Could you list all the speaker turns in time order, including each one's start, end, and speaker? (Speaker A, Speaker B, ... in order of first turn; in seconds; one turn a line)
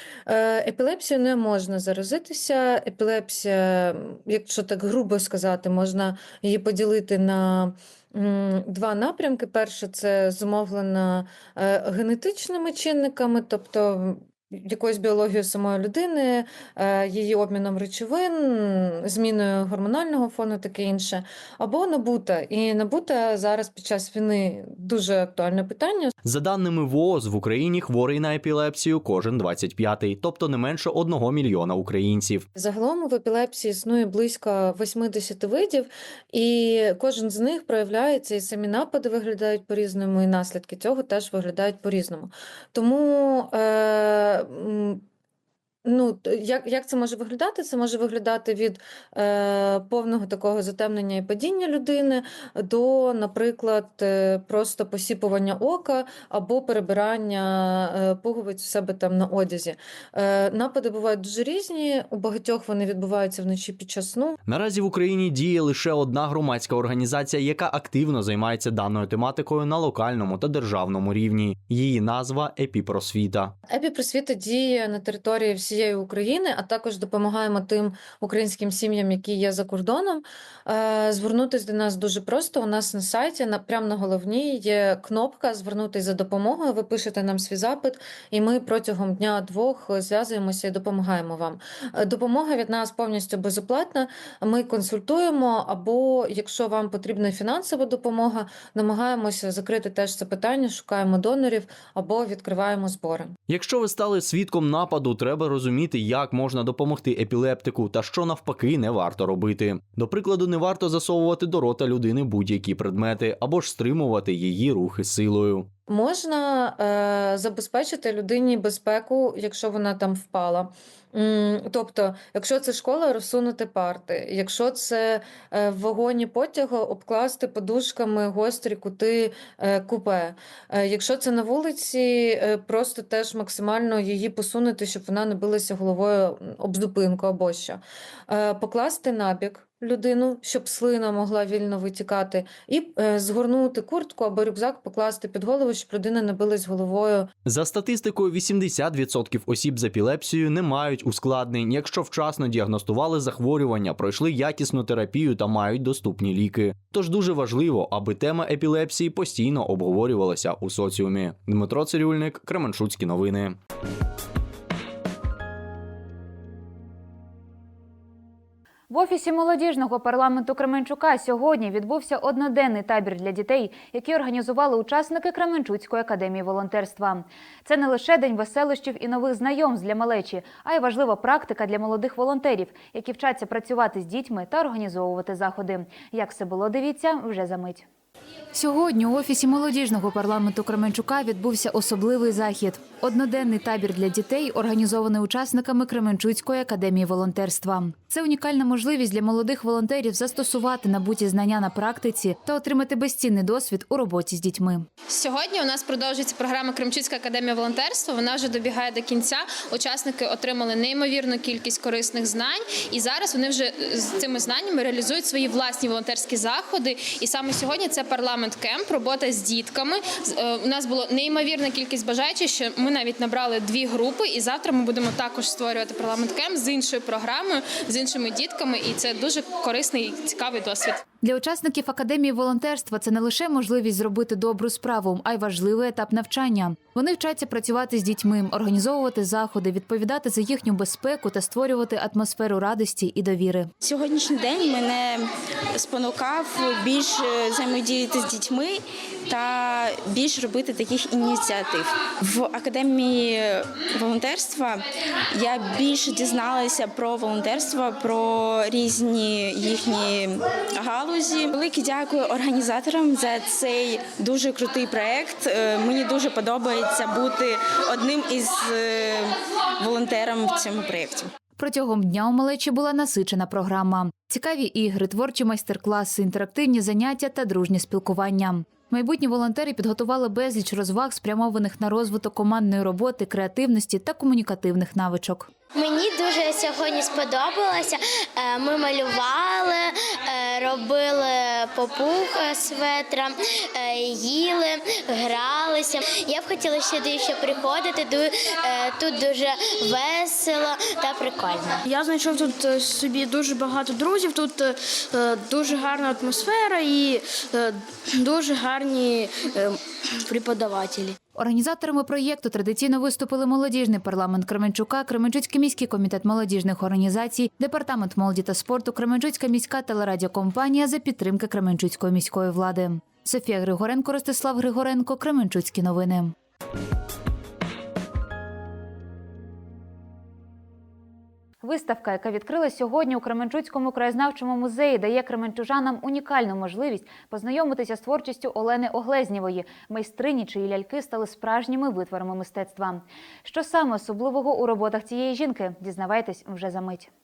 Speaker A: 0.3-26.1
Speaker B: 26.2-32.5
Speaker A: 32.6-45.0
Speaker A: 45.9-64.4
Speaker B: 64.5-73.5
Speaker A: 73.7-103.3
Speaker B: 103.5-115.7
Speaker A: 115.9-147.3
Speaker B: 147.5-163.6
Speaker C: 168.9-187.9
Speaker C: 188.5-204.9
Speaker D: 205.1-231.0
Speaker C: 231.2-243.7
Speaker E: 243.8-271.3
Speaker C: 271.6-285.5
Speaker F: 285.7-301.8
Speaker G: 301.8-311.2
Speaker C: 311.4-326.3
Speaker C: 331.6-347.1